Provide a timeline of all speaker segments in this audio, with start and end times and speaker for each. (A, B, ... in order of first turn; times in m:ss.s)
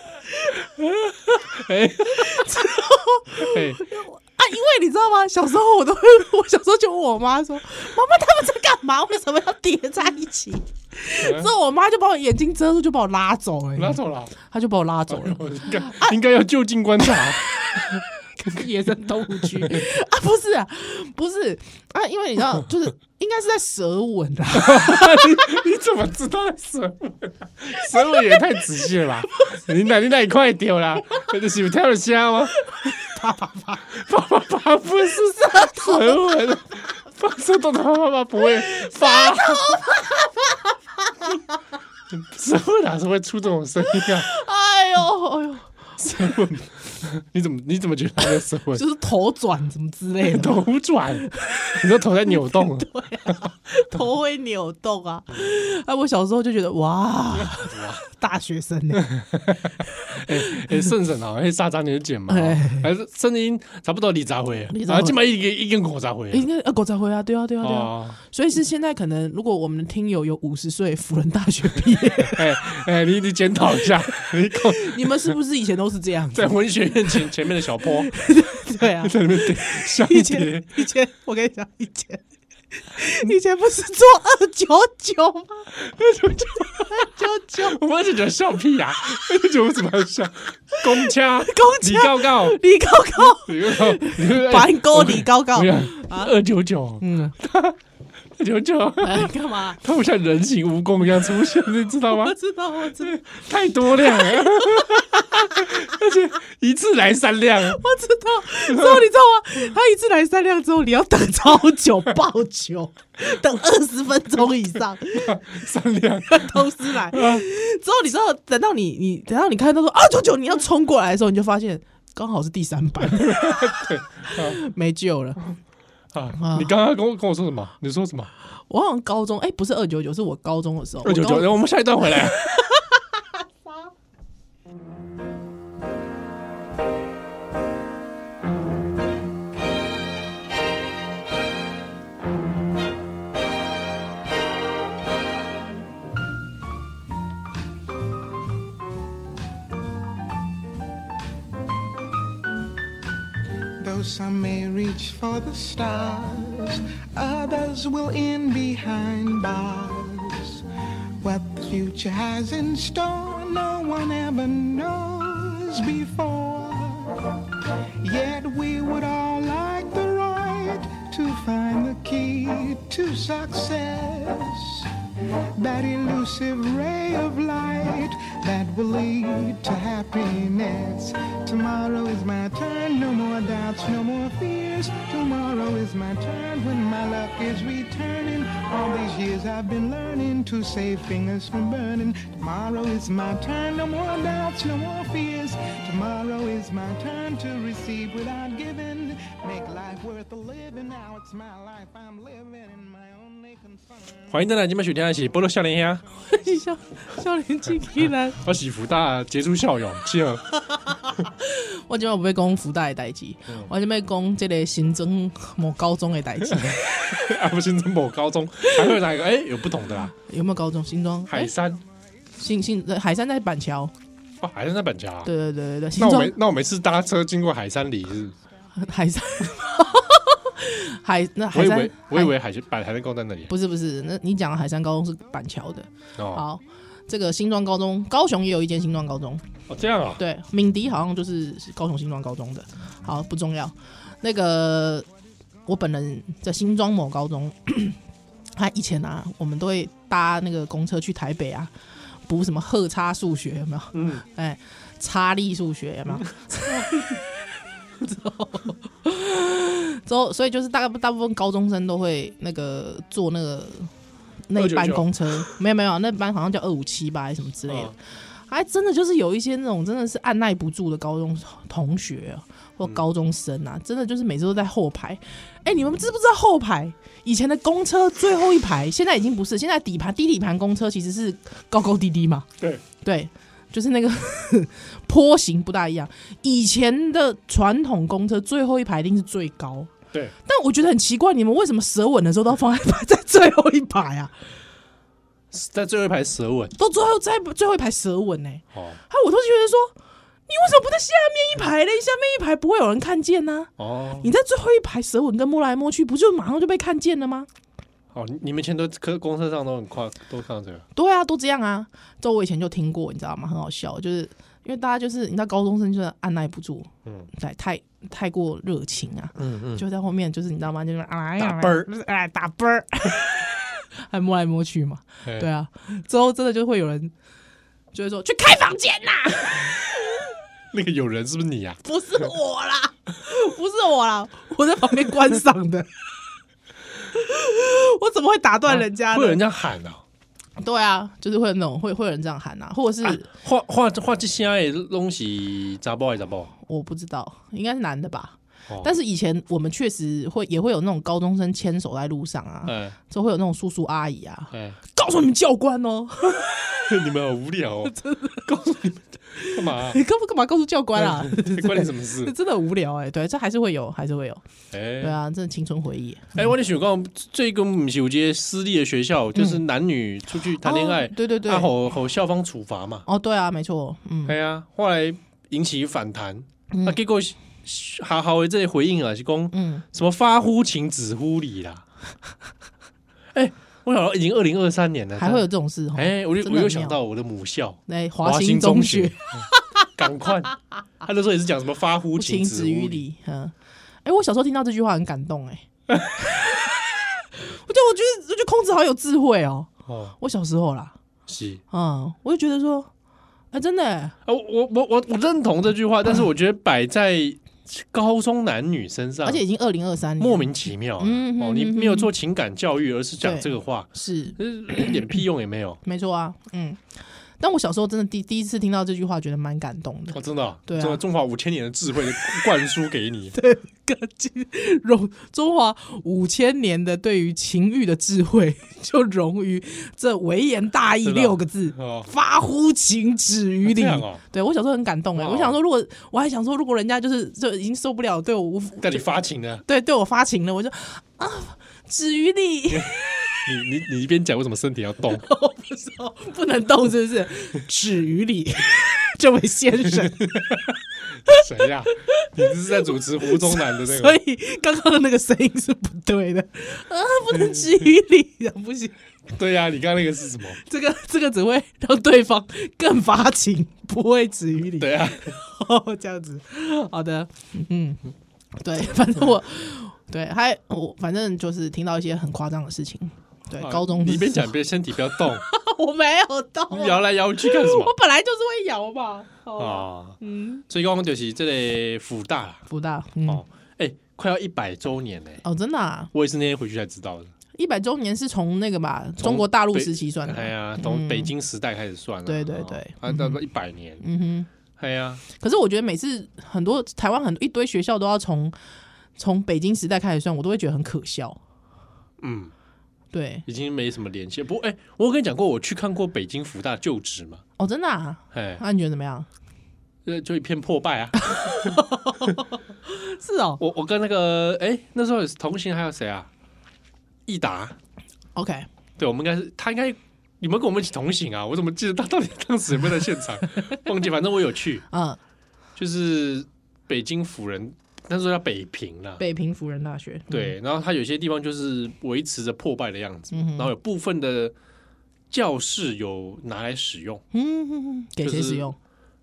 0:00.6-0:02.8 A
0:02.0-0:16.2 B
0:03.4-0:03.8 A
0:11.2-0:11.5 A
0:13.8-0:14.3 A
0:15.1-0:18.6 A
0:17.0-0:25.6 B
0:19.2-0:19.9 A
0:24.6-0:32.9 A
0:27.8-0:29.6 B
0:32.6-0:33.9 B
0:33.9-0:39.8 A
0:35.1-0:36.4 B
0:38.4-0:41.4 B
0:42.1-0:44.3 A
0:43.8-0:45.7 B
0:46.0-0:48.8 A
0:48.7-0:59.1 B
0:50.2-0:53.4 A
0:57.3-0:58.0 A
0:59.0-1:06.5 A
0:59.8-1:00.8 B
1:02.3-1:02.9 B
1:04.7-1:05.2 B
1:06.3-1:12.5 B
1:07.6-1:08.2 A
1:12.2-1:15.4 A
1:13.8-1:16.5 B
1:16.3-1:18.1 A
1:17.1-1:22.2 B
1:18.8-1:20.8 A
1:22.8-1:25.7 B
1:25.8-1:32.6 A
1:26.4-1:27.8 B
1:30.8-1:36.3 B
1:33.2-1:37.8 A
1:37.0-1:37.4 B
1:38.4-1:42.4 A
1:39.0-1:39.8 B
1:42.1-1:43.2 B
1:43.0-1:47.8 A
1:43.8-1:46.0 B
1:47.6-1:55.5 B
1:48.7-1:49.1 A
1:55.2-1:57.4 A
1:56.3-2:05.4 B
2:03.2-2:04.6 A
2:06.1-2:08.3 A
2:06.4-2:06.7 B
2:08.7-2:11.5 B
2:11.0-2:12.5 A
2:12.1-2:13.0 B
2:33.8-2:40.6 C
2:41.2-2:47.4 C
2:48.0-2:54.9 C
2:55.6-3:24.2 C
3:24.3-3:26.0 A
3:26.2-3:28.4 B
3:28.0-3:30.4 A
3:30.8-3:37.3 B
3:36.5-3:40.1 A
3:38.6-3:39.0 B
3:40.2-3:41.5 B
3:41.3-3:41.8 A
3:42.4-3:43.9 B
3:44.4-3:45.3 A
3:45.2-3:46.4 B
3:46.0-3:48.4 A
3:48.8-3:52.3 B
3:51.5-3:53.5 A
3:53.5-3:59.5 B
3:56.2-3:56.4 A
3:59.7-4:00.2 A
4:00.2-4:05.1 B
4:05.7-4:08.0 B
4:08.6-4:11.7 B
4:12.3-4:17.2 B
4:13.9-4:14.2 A
4:16.6-4:17.0 A
4:18.0-4:23.9 B
4:24.5-4:49.9 B
4:24.6-4:25.5 A
4:27.7-4:27.9 A
4:50.4-4:54.3 B
4:55.5-4:56.8 A
4:56.8-5:00.0 B
4:58.7-4:59.0 A
5:00.5-5:07.5 B
5:03.8-5:04.3 A
5:08.1-5:10.9 A
5:11.0-5:27.1 B
5:19.4-5:19.8 A
5:21.4-5:21.9 A
5:27.9-5:30.2 B
5:30.7-5:32.2 A
5:31.8-5:35.9 B
5:37.1-5:39.4 B
5:38.7-5:40.0 A
5:40.6-5:43.3 B
5:43.0-5:46.5 A
5:46.6-5:56.8 B
5:52.7-5:53.0 A
5:54.5-5:54.8 A
5:56.8-6:00.0 A
5:57.8-5:58.5 B
5:59.4-6:04.4 B
6:01.0-6:02.3 A
6:04.7-6:05.2 A
6:05.0-6:06.5 B
6:06.4-6:13.1 A
6:09.4-6:09.6 B
6:10.6-6:11.7 B
6:13.1-6:14.4 B
6:14.2-6:21.8 A
6:16.7-6:17.0 B
6:19.5-6:19.8 B
6:23.3-6:33.0 A
6:25.2-6:27.0 B
6:27.9-6:29.9 B
6:32.2-6:35.7 B
6:36.2-6:36.7 B
6:37.3-6:41.0 B
6:39.9-6:40.2 A
6:41.3-6:41.6 A
6:41.7-6:42.9 B
6:43.5-6:44.2 B
6:44.3-6:49.4 A
6:49.2-6:52.1 B
6:50.2-6:55.8 A
6:53.2-6:55.0 B
6:55.8-6:56.8 B
6:57.4-7:01.0 B
7:00.1-7:03.4 A
7:03.3-7:19.0 B
7:11.0-7:12.1 A
7:13.6-7:14.2 A
7:15.2-7:15.6 A
7:18.8-7:19.6 A
7:19.6-7:23.5 B
7:23.5-7:25.2 A
7:25.1-7:30.6 B
7:30.0-7:30.7 A
7:31.3-7:34.2 A
7:31.3-7:39.0 B
7:37.4-7:37.6 A
7:39.3-7:40.6 A
7:40.6-7:54.5 B
7:44.8-7:45.4 A
7:53.6-7:55.4 A
7:55.2-8:00.6 B
7:56.7-7:57.9 A
7:59.6-8:02.6 A
8:02.7-8:03.4 B
8:03.3-8:05.4 A
8:05.4-8:06.1 B
8:06.1-8:07.3 A
8:07.5-8:11.3 B
8:09.2-8:14.0 A
8:12.3-8:13.4 B
8:14.0-8:14.5 B
8:14.8-8:15.2 A
8:15.3-8:18.6 B
8:19.2-8:21.4 B
8:22.2-8:22.5 A
8:23.1-8:23.5 B
8:23.5-8:27.4 A
8:27.6-8:29.3 B
8:28.3-8:28.6 A
8:30.0-8:32.3 A
8:31.3-8:33.6 B
8:33.6-8:36.3 A
8:37.3-8:37.8 A
8:38.4-8:38.7 B
8:39.0-8:44.8 A
8:44.9-8:45.2 B
8:45.8-8:49.2 A
8:49.2-8:50.5 B
8:50.3-8:54.5 A
8:53.3-8:53.7 B
8:55.3-8:57.2 A
8:57.3-8:58.8 B
8:58.2-8:58.7 A